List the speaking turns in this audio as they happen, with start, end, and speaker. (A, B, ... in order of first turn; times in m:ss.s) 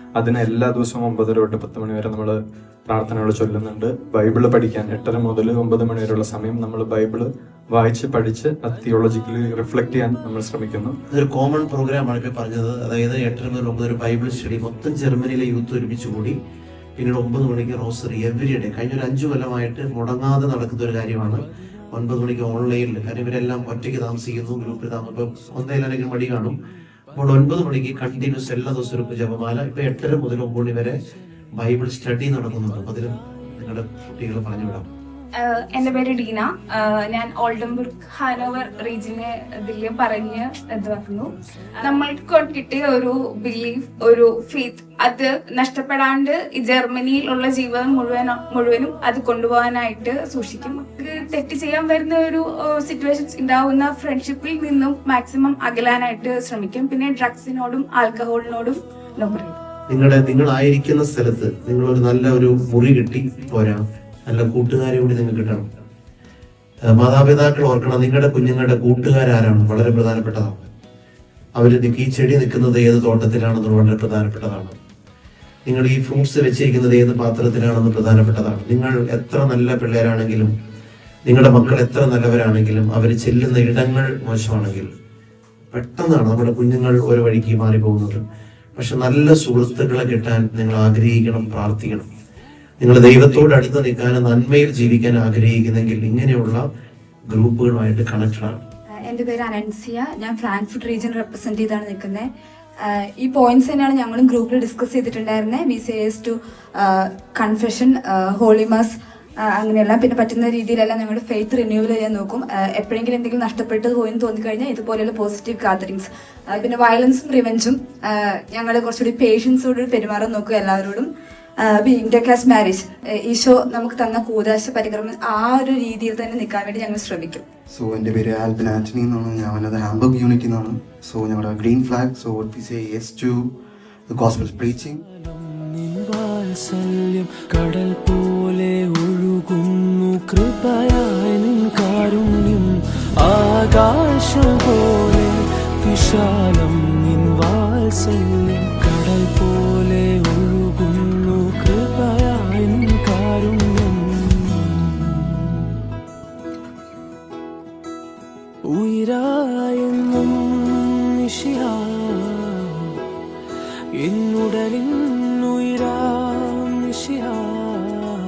0:00.2-0:10.9 A
0:11.1-0:16.4 B
0:17.0-0:26.5 B
0:27.1-0:31.0 B
0:31.6-0:34.8 B
0:35.4-0:59.6 C
0:59.9-1:05.6 B
1:06.9-1:10.7 B
1:11.6-1:14.7 B
1:15.6-1:20.5 B
1:21.2-1:24.9 B
1:25.7-1:28.2 B
1:28.8-1:32.0 B
1:32.8-1:36.6 B
1:37.3-1:38.6 B
1:39.0-1:42.3 D
1:42.8-1:48.9 D
1:49.5-2:01.1 D
2:01.6-2:07.4 D
2:07.7-2:13.5 E
2:14.1-2:15.0 E
2:15.7-2:22.6 F
2:23.3-2:25.3 F
2:25.9-2:30.9 F
2:31.6-2:33.8 F
2:38.7-2:39.2 F
2:39.8-2:40.3 F
2:41.4-2:41.7 F
2:44.1-2:44.8 F
2:47.0-2:47.3 F